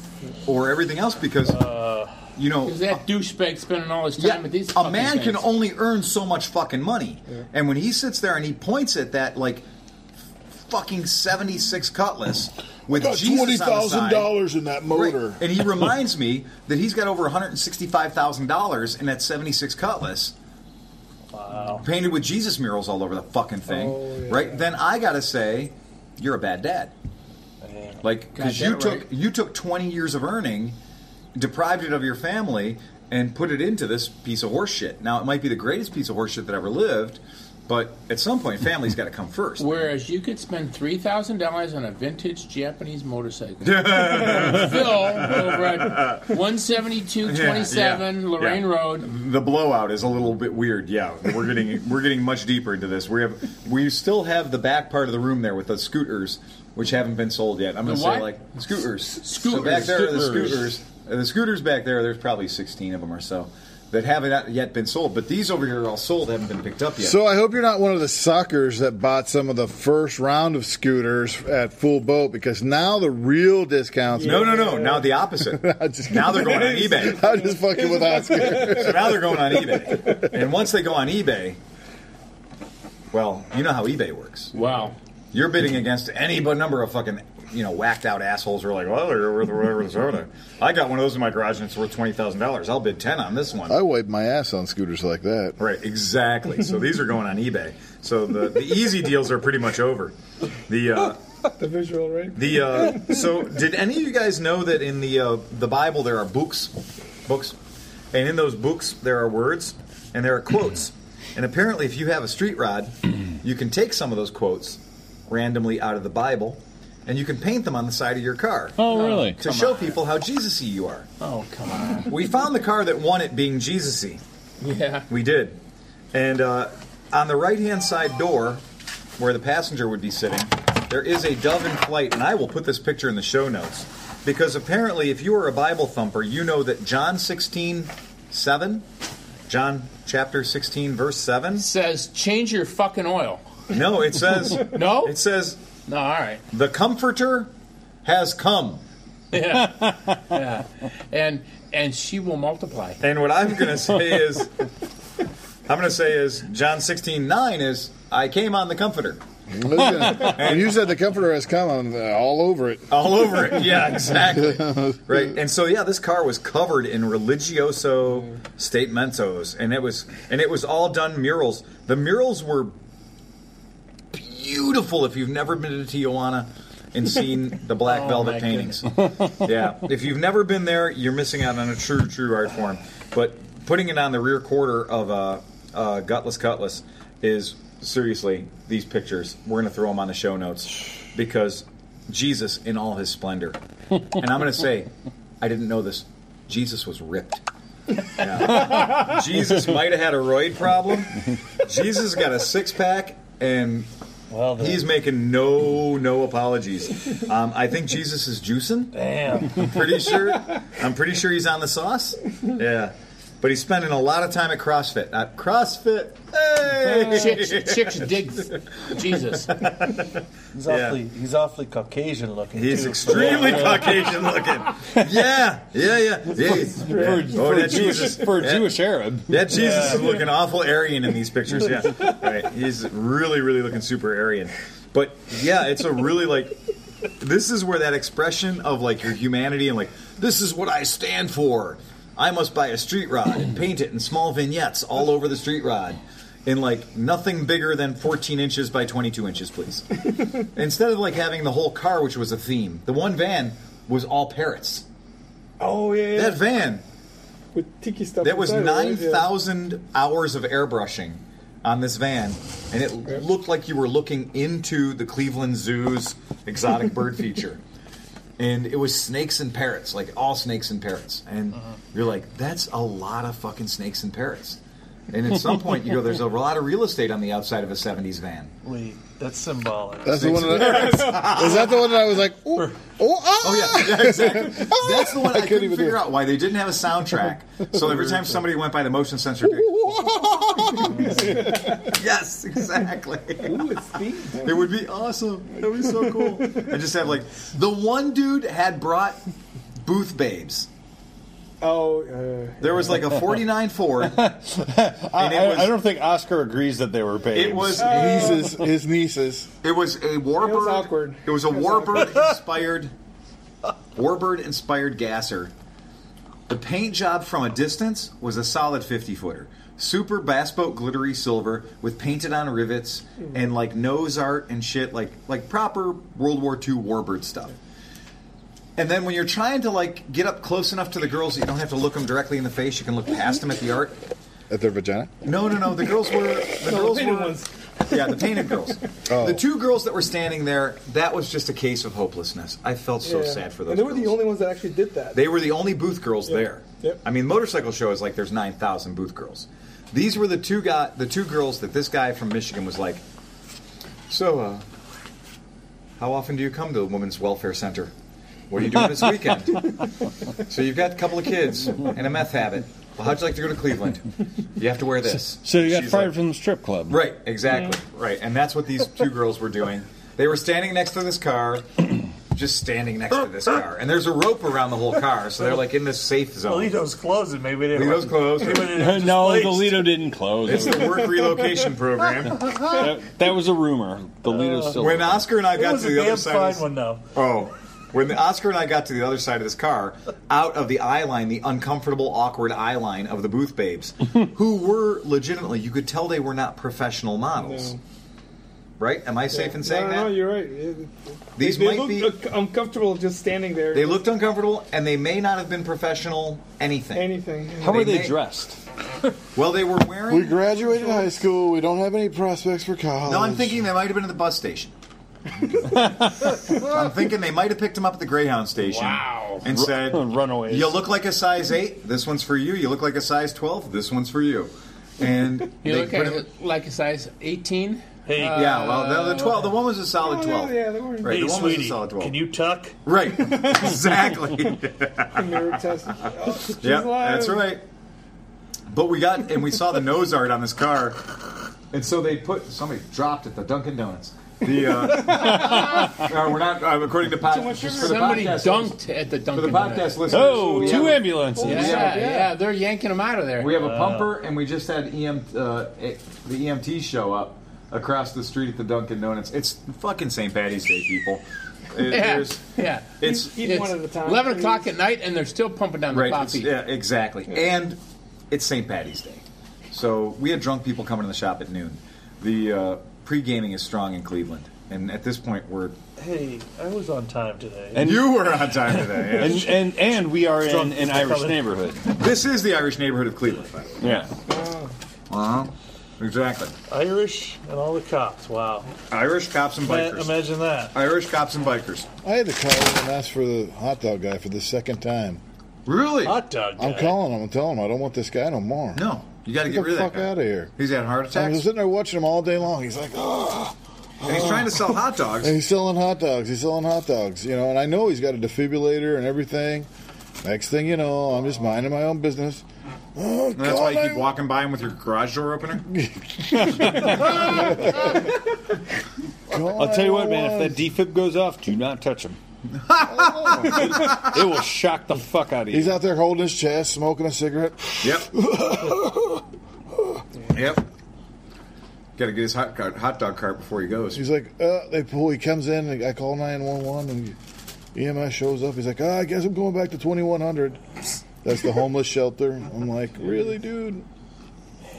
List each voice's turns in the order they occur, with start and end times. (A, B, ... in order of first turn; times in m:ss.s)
0:00.4-0:01.6 A
0:01.6-0:02.1 B
0:02.4-0:03.0 A
0:02.6-0:05.5 C
0:04.2-0:09.7 A
0:10.6-0:14.4 A
0:12.9-0:15.4 D
0:14.9-0:20.3 A
0:21.3-0:21.9 B
0:21.8-0:26.9 A
0:23.7-0:24.6 E
0:27.6-0:28.0 B
0:28.0-0:30.8 A
0:28.4-0:29.1 C
0:31.4-0:39.9 A
0:39.6-0:49.1 C
0:43.6-0:46.3 A
0:47.2-1:07.2 A
0:57.8-0:58.3 C
0:59.2-1:00.6 C
1:07.0-1:14.8 D
1:14.2-1:15.0 E
1:14.2-1:17.4 A
1:15.4-1:19.6 D
1:17.3-1:18.7 E
1:18.5-1:21.6 A
1:23.1-1:24.6 A
1:24.5-1:25.0 C
1:25.3-1:33.8 A
1:33.7-1:35.6 D
1:35.6-1:40.2 A
1:40.7-1:41.2 A
1:41.6-1:43.0 E
1:42.3-1:47.6 A
1:48.1-2:01.1 A
1:58.8-1:59.4 F
1:58.8-1:59.9 C
2:01.2-2:02.2 C
2:02.1-2:04.2 A
2:04.6-2:05.1 C
2:05.1-2:05.6 A
2:06.1-2:08.6 A
2:09.2-2:18.8 A
2:19.5-2:21.7 A
2:21.6-2:23.5 C
2:23.7-2:25.6 A
2:24.6-2:25.2 C
2:25.9-2:26.4 C
2:26.5-2:27.5 A
2:28.0-2:28.8 A
2:29.3-2:33.0 C
2:33.0-2:34.5 A
2:35.7-2:39.2 A
2:39.5-2:42.9 D
2:39.8-2:40.8 A
2:42.9-2:52.7 A
2:44.4-2:45.0 D
2:54.1-3:14.9 A
2:57.8-2:58.8 C
3:15.4-3:17.4 A
3:18.1-3:23.9 A
3:24.3-3:24.9 B
3:24.6-3:38.2 A
3:28.9-3:30.0 B
3:37.0-3:39.7 C
3:39.4-3:40.1 A
3:40.5-3:44.5 B
3:40.7-3:41.0 A
3:42.5-3:56.6 A
3:46.7-3:47.3 E
3:46.8-3:49.5 F
3:49.5-3:50.1 B
3:57.2-4:14.8 A
4:15.6-4:16.4 E
4:16.1-4:16.8 A
4:17.5-4:19.3 E
4:18.2-4:27.6 A
4:28.4-4:38.5 A
4:38.6-4:41.5 B
4:40.0-4:46.0 D
4:40.2-4:41.8 A
4:43.4-4:49.9 A
4:49.4-4:51.6 D
4:50.5-4:53.8 A
4:51.1-4:51.8 E
4:53.4-4:54.6 E
4:54.4-4:59.2 A
4:59.8-5:00.7 A
5:01.6-5:03.0 E
5:02.6-5:04.3 A
5:04.0-5:07.8 F
5:05.1-5:05.8 A
5:07.3-5:08.5 A
5:07.8-5:08.5 E
5:07.9-5:09.5 D
5:09.6-5:12.9 A
5:10.4-5:12.2 E
5:14.0-5:15.5 A
5:16.5-5:27.5 A
5:28.8-5:34.0 A
5:34.5-5:35.1 D
5:35.2-5:44.3 A
5:36.6-5:37.5 E
5:38.0-5:38.3 E
5:39.1-5:39.4 D
5:43.0-5:45.2 E
5:45.1-5:53.0 A
5:46.3-5:47.0 E
5:54.1-5:54.6 A
5:56.0-5:57.9 A
5:58.5-5:59.8 A
6:00.4-6:06.2 A
6:05.4-6:07.0 F
6:06.9-6:16.8 A
6:16.4-6:20.1 B
6:17.7-6:18.8 A
6:18.6-6:21.2 F
6:20.4-6:22.8 A
6:22.5-6:25.3 F
6:24.3-6:24.8 B
6:24.8-6:37.7 A
6:25.4-6:27.0 B
6:37.4-6:37.8 E
6:38.8-6:40.2 A
6:39.3-6:44.1 E
6:41.4-6:42.2 A
6:43.7-6:48.2 A
6:46.9-6:47.8 E
6:47.6-6:48.6 F
6:49.4-6:50.4 A
6:50.1-6:53.6 D
6:50.7-6:51.1 E
6:53.0-6:54.7 A
6:55.8-6:56.1 F
6:56.6-7:06.3 A
6:58.6-6:59.4 C
6:59.4-7:00.7 F
7:05.6-7:08.7 C
7:08.0-7:09.5 B
7:08.3-7:12.2 A
7:10.0-7:11.2 E
7:11.0-7:12.8 B
7:12.8-7:15.4 A
7:15.1-7:17.5 E
7:16.4-7:17.6 A
7:18.7-7:21.2 A
7:21.7-7:32.3 A
7:25.1-7:25.7 E
7:25.1-7:26.0 F
7:27.2-7:28.4 E
7:27.8-7:30.1 C
7:30.0-7:31.6 F
7:30.2-7:32.3 E
7:31.4-7:33.6 C
7:33.4-7:42.4 A
7:33.6-7:34.1 B
7:41.8-7:46.6 C
7:43.0-7:43.4 A
7:43.0-7:44.7 E
7:45.9-7:47.8 A
7:48.3-7:55.8 A
7:56.0-7:58.0 B
7:57.8-7:58.1 F
7:57.8-7:59.6 A
7:58.8-8:01.5 B
7:59.1-8:01.8 F
8:01.8-8:04.1 A
8:03.8-8:04.1 F
8:04.2-8:04.7 E
8:05.1-8:06.6 A
8:06.7-8:08.7 B
8:08.9-8:10.2 A
8:09.6-8:10.8 B
8:10.7-8:11.9 A
8:12.0-8:15.2 D
8:15.7-8:16.2 A
8:16.0-8:17.0 B
8:16.6-8:20.5 D
8:18.7-8:21.4 A
8:21.1-8:29.7 D
8:24.0-8:25.4 A
8:30.2-8:32.4 D
8:33.0-8:34.1 D
8:33.4-8:35.7 A
8:35.7-8:38.0 D
8:36.3-8:37.4 F
8:39.3-8:40.6 D
8:39.4-8:42.2 F
8:42.6-8:44.2 A
8:42.9-8:43.7 D
8:43.5-8:45.8 F
8:45.5-8:49.2 D
8:47.8-8:48.1 A
8:49.8-8:50.0 D
8:50.3-8:50.6 A
8:52.0-8:54.0 A
8:53.9-8:57.2 D
8:57.7-9:00.6 D
9:01.2-9:03.8 D